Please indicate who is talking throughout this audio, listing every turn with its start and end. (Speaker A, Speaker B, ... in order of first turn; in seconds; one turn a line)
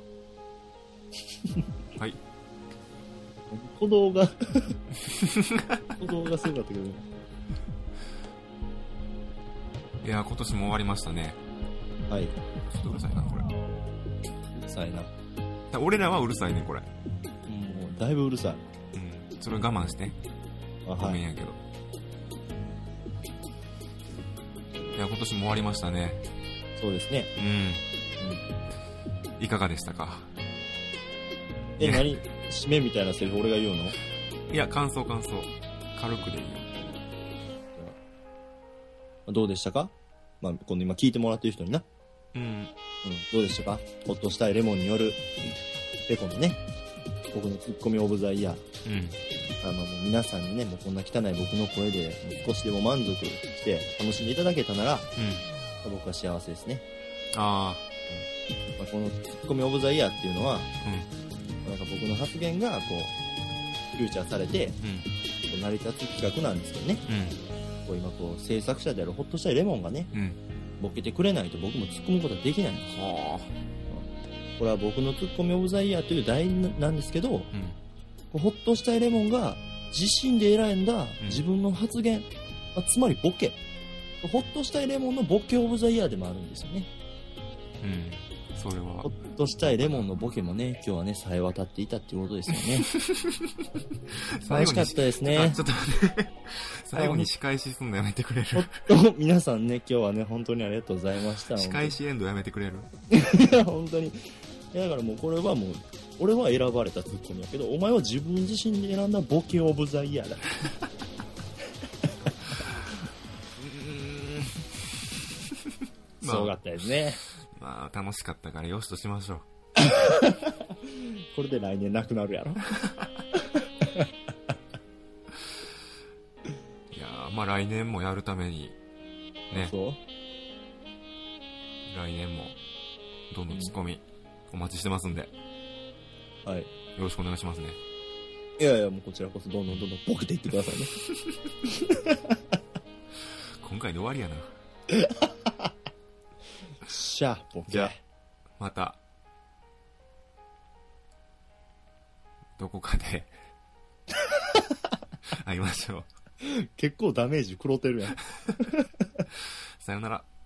Speaker A: 3.5-4.8
Speaker B: 5.2-5.8
Speaker A: 6.0-7.0
Speaker B: 10.0-11.4
Speaker A: 12.1-12.4
Speaker B: 12.7-13.5
Speaker A: 14.6-15.1
Speaker B: 15.7-16.9
Speaker A: 17.5-18.6
Speaker B: 18.9-20.2
Speaker A: 20.9-21.2
Speaker B: 21.0-21.6
Speaker B: 24.9-26.2
Speaker A: 26.8-27.3
Speaker B: 27.4-27.8
Speaker B: 29.4-30.3
Speaker A: 31.8-34.0
Speaker B: 31.8-32.2
Speaker B: 34.5-36.7
Speaker A: 39.3-41.9
Speaker B: 42.3-42.7
Speaker A: 43.0-45.5
Speaker A: 46.1-46.6
Speaker A: 47.3-48.6
Speaker B: 48.8-49.2
Speaker A: 49.6-55.1
Speaker B: 55.2-55.5
Speaker A: 55.8-56.8
Speaker B: 57.3-57.9
Speaker A: 58.8-60.7
Speaker B: 60.8-61.1
Speaker A: 61.6-63.1
Speaker A: 63.9-64.8
Speaker B: 64.8-65.1
Speaker A: 65.5-67.0
Speaker B: 67.1-67.4
Speaker A: 67.8-70.1
Speaker B: 70.1-70.4
Speaker A: 70.8-72.9
Speaker B: 72.9-73.5
Speaker A: 74.6-77.5
Speaker B: 77.5-77.8
Speaker A: 78.3-83.6
Speaker A: 84.2-86.9
Speaker B: 87.8-90.1
Speaker A: 89.0-92.9
Speaker B: 92.8-98.9
Speaker A: 94.5-95.6
Speaker A: 96.9-97.3
Speaker A: 98.5-102.0
Speaker B: 101.5-102.9
Speaker A: 103.1-110.5
Speaker B: 113.6-116.6
Speaker A: 116.2-117.2
Speaker B: 117.4-119.5
Speaker A: 119.8-120.5
Speaker A: 121.3-122.7
Speaker A: 123.8-124.1
Speaker B: 126.9-128.8
Speaker A: 129.5-130.0
Speaker B: 131.9-132.6
Speaker B: 133.3-135.3
Speaker A: 133.5-133.7
Speaker B: 137.0-137.8
Speaker A: 138.6-140.9
Speaker A: 141.8-142.3
Speaker B: 143.6-144.5
Speaker A: 146.8-148.0
Speaker B: 147.7-147.9
Speaker B: 148.6-149.0
Speaker B: 152.6-153.3
Speaker B: 155.3-156.1
Speaker A: 156.4-159.2
Speaker B: 159.8-160.3